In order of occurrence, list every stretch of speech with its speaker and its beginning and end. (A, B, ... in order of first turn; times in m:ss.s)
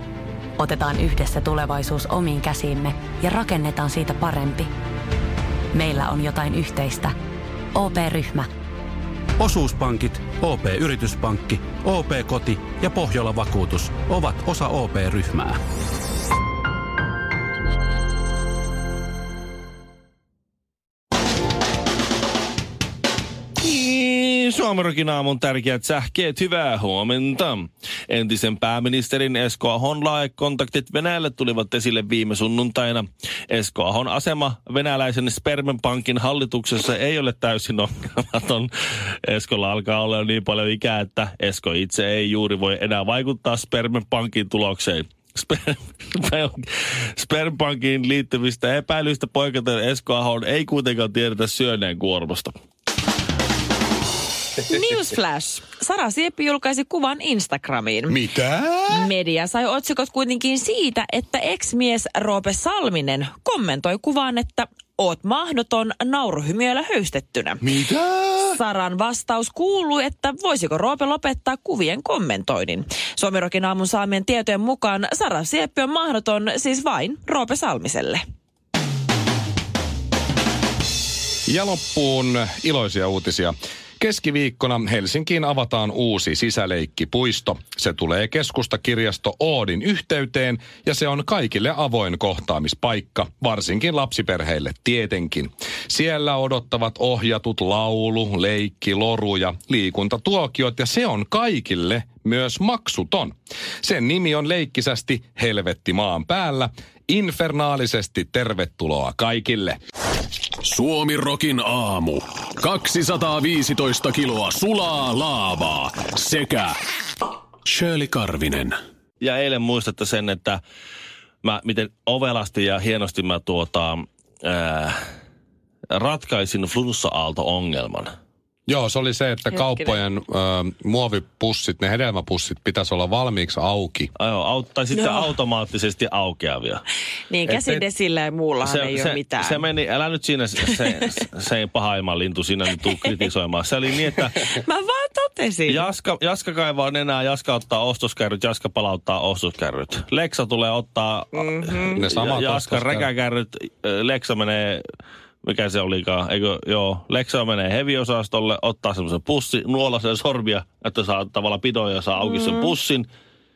0:00.6-0:04.7 A
0:05.7-0:07.1 A
0:07.8-0:08.5 A
0:09.4-0:15.6 B
0:23.6-0:52.5 C
0:54.6-0:58.2 D
0:58.1-0:59.1 E
0:58.9-1:07.7 D
1:07.6-1:08.6 E
1:08.5-1:18.2 D
1:21.5-1:49.8 E
1:50.6-1:56.8 F
1:57.6-1:58.8 F
1:59.2-2:00.6 C
2:01.4-2:05.0 C
2:05.9-2:08.1 C
2:08.7-2:14.1 E
2:09.5-2:10.0 D
2:14.2-2:16.8 C
2:14.9-2:15.4 D
2:17.3-2:19.7 D
2:18.6-2:24.6 C
2:24.4-2:25.9 D
2:25.7-2:34.8 C
2:31.3-2:32.0 D
2:31.9-2:33.1 E
2:35.4-2:43.1 C
2:42.2-2:42.7 D